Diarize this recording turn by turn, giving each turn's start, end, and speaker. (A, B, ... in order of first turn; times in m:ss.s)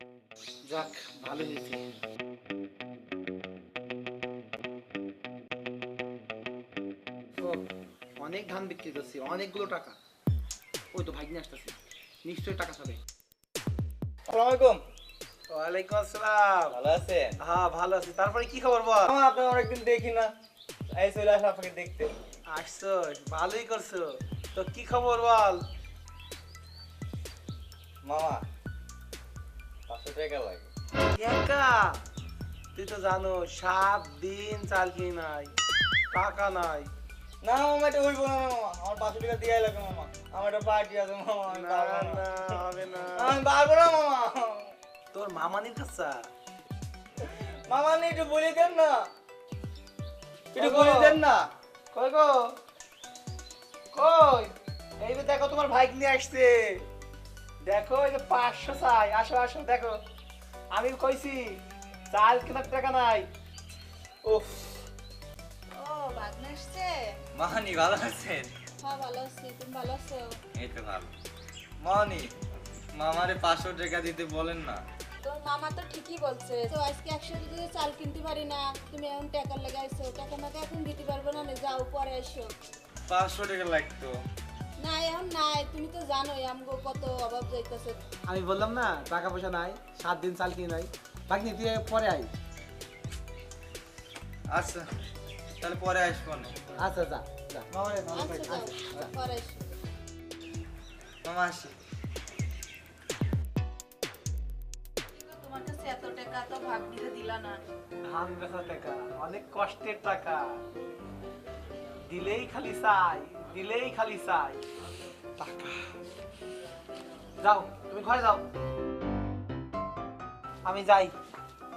0:00.7-0:01.8 A
0:08.2-0:09.9 A
0:10.9-0:11.7 A
0:12.2-0:13.0 A
0:14.3-0:14.8 B
0:15.5-0:16.8 A
0:16.7-0:17.4 B
0:17.4-0:19.1 A
0:19.0-0:20.3 B
0:20.9-0:22.1 B
0:22.5-0:25.6 A
0:28.0-0:28.4 B
0:29.9-0:30.7 B
0:31.2-0:31.9 A
0:32.7-0:35.5 A
0:36.1-0:36.9 A
0:37.4-0:42.4 B
0:41.5-0:43.4 A
0:43.1-0:44.7 B
0:45.1-0:46.2 A
0:47.2-0:49.0 B
0:50.5-0:51.4 B
0:50.6-0:51.2 A
0:51.9-0:52.4 A
0:53.9-0:56.8 A
0:57.6-1:00.0 A
1:00.7-1:01.6 A
1:02.1-1:03.3 A
1:04.2-1:04.8 A
1:05.7-1:07.1 C
1:07.4-1:08.5 B
1:08.8-1:10.4 C
1:10.5-1:11.1 B
1:11.8-1:12.3 B
1:12.9-1:14.8 B
1:15.2-1:22.5 C
1:23.1-1:24.2 B
1:24.8-1:28.0 C
1:28.3-1:32.3 A
1:34.5-1:34.8 B
1:35.6-1:36.5 B
1:36.8-1:38.9 A
1:38.1-1:39.6 C
1:41.2-1:41.7 B
1:45.2-1:47.6 C
1:48.1-1:50.6 A
1:52.1-1:54.6 A
1:55.4-1:55.8 A
1:57.4-1:58.4 A
2:00.6-2:01.1 A